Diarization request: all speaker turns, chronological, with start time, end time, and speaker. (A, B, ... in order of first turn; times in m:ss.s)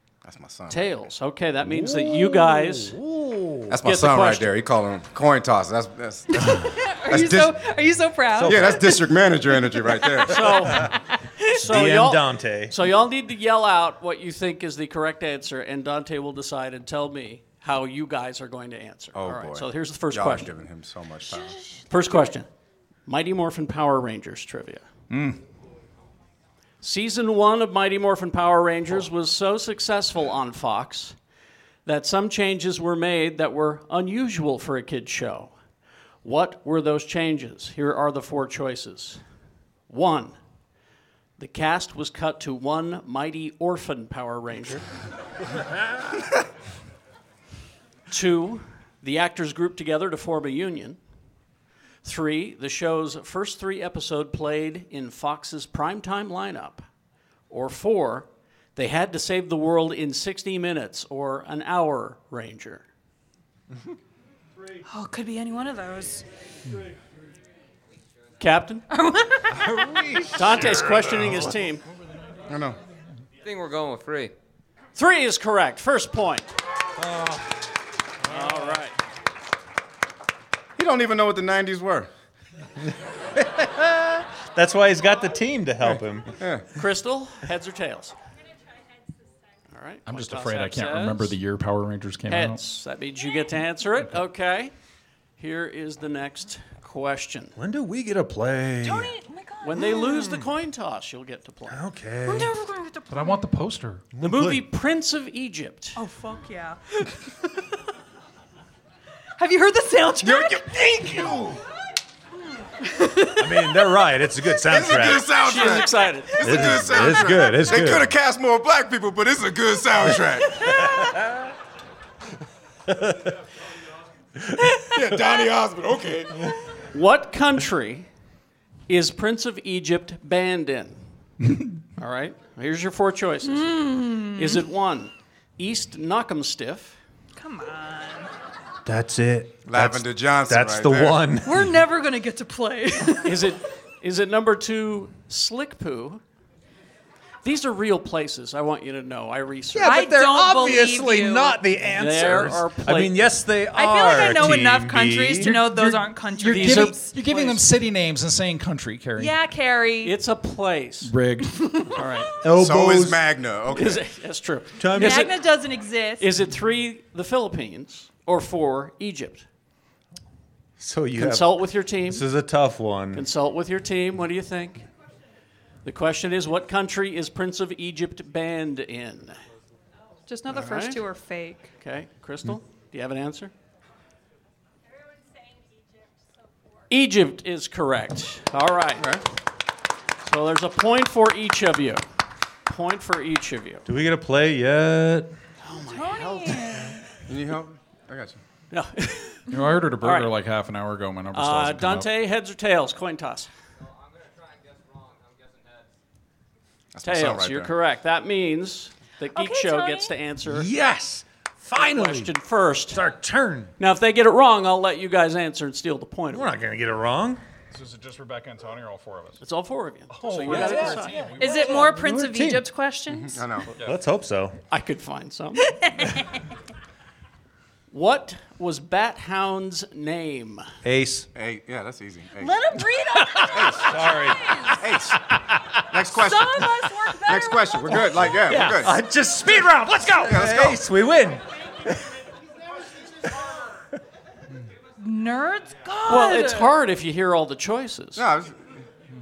0:00.2-0:00.9 A
0:00.7-0:03.0 B
0:01.6-0:03.8 C
0:03.7-0:07.6 A
0:03.8-0:04.6 B
0:06.4-0:08.9 D
0:08.4-0:09.0 C
0:08.4-0:10.7 A
0:10.3-0:10.9 B
0:10.7-0:11.6 D
0:11.5-0:12.8 C
0:11.5-0:20.5 B
0:19.2-0:21.6 A
0:21.9-0:22.5 B
0:23.1-0:24.9 B
0:25.1-0:25.4 E
0:26.8-0:31.2 B
0:31.9-0:35.5 B
0:36.2-0:39.2 B
0:39.9-0:40.4 B
0:41.4-0:44.8 B
0:48.1-0:51.0 B
0:52.0-0:56.8 B
0:57.5-1:02.8 B
1:04.9-1:06.2 D
1:08.4-1:08.8 B
1:08.9-1:09.9 D
1:09.6-1:11.4 C
1:10.3-1:11.8 B
1:12.5-1:12.8 A
1:13.4-1:14.3 F
1:15.0-1:16.5 B
1:17.0-1:17.6 C
1:18.3-1:19.0 B
1:20.8-1:22.1 A
1:23.3-1:26.4 C
1:26.4-1:26.7 A
1:26.8-1:28.2 B
1:29.7-1:31.4 B
1:30.1-1:32.6 E
1:32.3-1:34.7 B
1:35.4-1:37.5 B
1:37.6-1:39.2 C
1:38.8-1:40.3 D
1:39.6-1:41.8 B
1:41.7-1:42.5 C
1:42.3-1:43.4 D
1:43.1-1:44.0 E
1:44.1-1:44.6 C
1:44.2-1:46.0 B
1:46.0-1:47.5 D
1:49.4-1:50.8 D
1:50.2-1:51.6 A
1:52.8-1:53.5 D
1:53.4-1:55.3 C
1:54.6-2:00.8 A
1:55.4-1:56.6 B
1:56.4-1:58.1 C
2:00.6-2:01.0 D
2:00.7-2:01.2 C
2:04.9-2:06.5 A
2:06.9-2:08.1 B
2:08.9-2:11.0 B
2:12.0-2:17.0 B
2:13.4-2:14.6 D
2:17.4-2:18.3 D
2:18.8-2:21.7 C
2:19.7-2:21.3 A
2:21.4-2:23.5 D
2:23.2-2:26.2 B
2:27.4-2:30.0 B
2:29.7-2:35.6 C
2:29.8-2:31.6 D
2:32.0-2:33.2 B
2:33.7-2:37.6 D
2:35.4-2:39.3 E
2:36.5-2:37.0 B
2:39.2-2:40.2 D
2:40.0-2:41.1 B
2:41.0-2:41.7 E
2:41.6-2:42.0 D
2:42.0-2:42.3 B
2:42.4-2:43.2 C
2:42.6-2:44.0 A
2:43.7-2:45.4 B
2:44.8-2:45.3 C
2:44.9-2:46.3 D
2:46.2-2:49.5 B
2:50.8-2:53.2 C
2:51.2-2:52.2 B
2:53.1-2:54.9 B
2:55.8-2:59.4 B
3:00.3-3:01.7 D
3:00.5-3:01.0 B
3:01.8-3:03.5 B
3:06.9-3:09.2 B
3:10.2-3:12.0 B
3:12.7-3:13.8 B
3:13.9-3:15.3 C
3:15.6-3:16.8 B
3:15.9-3:17.0 D
3:17.3-3:18.4 A
3:18.7-3:19.4 B
3:19.5-3:22.1 E
3:20.0-3:20.3 B
3:21.3-3:23.5 B
3:23.8-3:26.0 F
3:26.9-3:27.7 A
3:27.0-3:30.7 B
3:29.3-3:30.1 D
3:30.5-3:32.4 C
3:31.8-3:33.0 B
3:32.9-3:33.7 C
3:33.8-3:36.5 B
3:36.3-3:37.4 C
3:37.7-3:39.4 E
3:39.4-3:41.2 B
3:40.1-3:42.0 E
3:40.4-3:42.6 C
3:41.4-3:43.4 D
3:43.1-3:43.7 A
3:43.8-3:44.6 C
3:44.7-3:45.8 B
3:45.6-3:46.5 D
3:47.9-3:50.7 B
3:50.8-3:51.3 C
3:51.4-3:52.6 A
3:52.4-3:54.8 D
3:53.5-3:53.9 A
3:53.6-3:54.6 C
3:54.8-3:55.2 A
3:55.9-3:56.8 A
3:56.1-3:58.0 D
3:57.3-3:58.9 A
3:58.4-4:02.1 C
4:00.2-4:00.8 A
4:05.0-4:06.7 D
4:06.1-4:08.2 B
4:08.2-4:08.7 A